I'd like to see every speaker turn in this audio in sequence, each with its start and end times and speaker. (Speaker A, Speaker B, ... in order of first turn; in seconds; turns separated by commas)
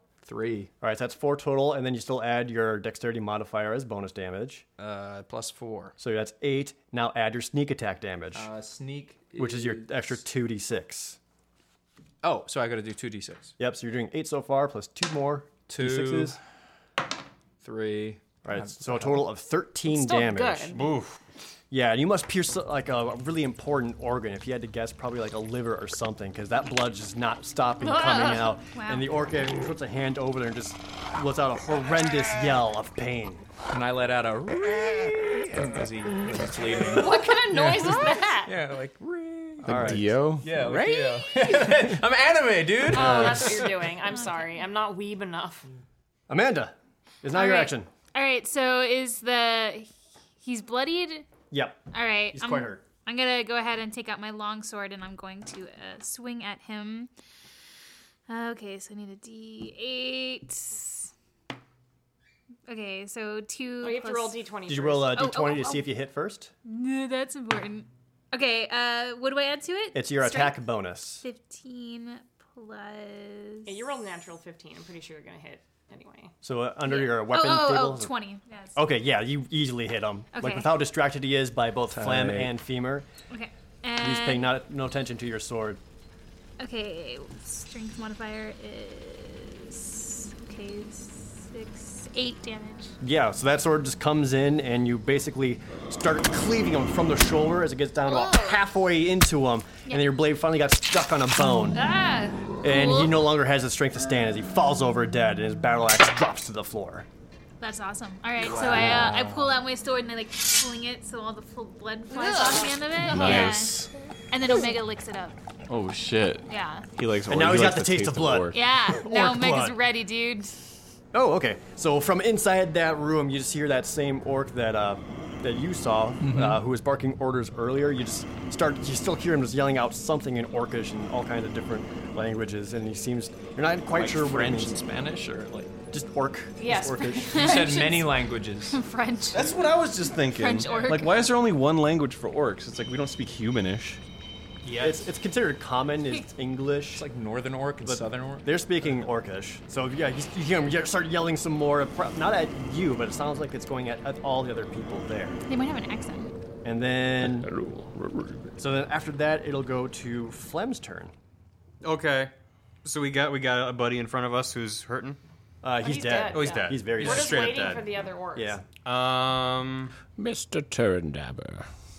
Speaker A: 0.2-0.7, Speaker B: 0.8-4.6, Speaker A: 4.8-6.0, Speaker B: 6.0-8.5, Speaker A: 8.3-10.2, Speaker B: 9.4-11.2, Speaker A: 12.2-13.5, Speaker B: 13.6-16.4, Speaker A: 15.7-16.4, Speaker A: 17.6-19.3, Speaker B: 18.4-20.8, Speaker C: 19.8-20.9, Speaker D: 20.7-21.2, Speaker B: 21.7-33.5, Speaker C: 27.8-28.5, Speaker E: 28.7-29.1, Speaker A: 33.7-43.7, Speaker C: 36.9-38.5, Speaker F: 39.6-41.0, Speaker B: 39.7-40.0, Speaker C: 42.9-45.7, Speaker B: 42.9-43.5, Speaker E: 44.0-44.6, Speaker B: 46.3-47.9, Speaker E: 47.3-51.3, Speaker B: 51.5-51.8, Speaker E: 51.9-57.1, Speaker B: 52.3-52.8, Speaker E: 58.3-61.1, Speaker E: 62.7-64.4, Speaker C: 63.8-65.2, Speaker B: 64.7-66.5, Speaker E: 65.1-65.9, Speaker E: 66.7-70.6, Speaker B: 69.9-71.2, Speaker E: 71.2-73.9, Speaker C: 73.7-76.3, Speaker B: 76.4-78.1, Speaker E: 76.8-78.8, Speaker B: 78.8-83.1, Speaker E: 80.3-80.8, Speaker A: 81.9-82.5, Speaker E: 83.3-84.5, Speaker B: 84.0-85.8, Speaker E: 86.6-92.9, Speaker B: 93.0-101.8, Speaker C: 98.1-98.6, Speaker C: 101.7-102.5, Speaker B: 102.6-107.0, Speaker E: 102.6-103.3, Speaker E: 107.6-115.4, Speaker F: 108.5-109.5, Speaker C: 112.1-113.5, Speaker F: 113.0-113.9, Speaker F: 115.7-118.6, Speaker E: 116.5-116.8, Speaker B: 117.3-119.8, Speaker E: 118.5-120.6, Speaker B: 121.1-134.8, Speaker A: 126.2-126.6, Speaker A: 133.9-135.7, Speaker B: 135.9-137.7, Speaker C: 136.6-138.1, Speaker A: 137.3-138.8, Speaker E: 137.4-137.8, Speaker E: 138.7-141.3, Speaker F: 139.3-144.0, Speaker D: 144.6-145.1, Speaker B: 144.8-147.0, Speaker A: 146.9-149.0, Speaker B: 147.8-155.4, Speaker E: 155.5-156.3, Speaker B: 156.6-157.5, Speaker F: 157.2-158.5, Speaker B: 158.6-161.1, Speaker D: 161.8-162.3, Speaker D: 162.8-165.2, Speaker B: 165.6-167.6, Speaker C: 165.8-168.6, Speaker D: 166.3-167.8, Speaker B: 168.3-168.6, Speaker D: 168.8-169.9, Speaker F: 170.2-171.7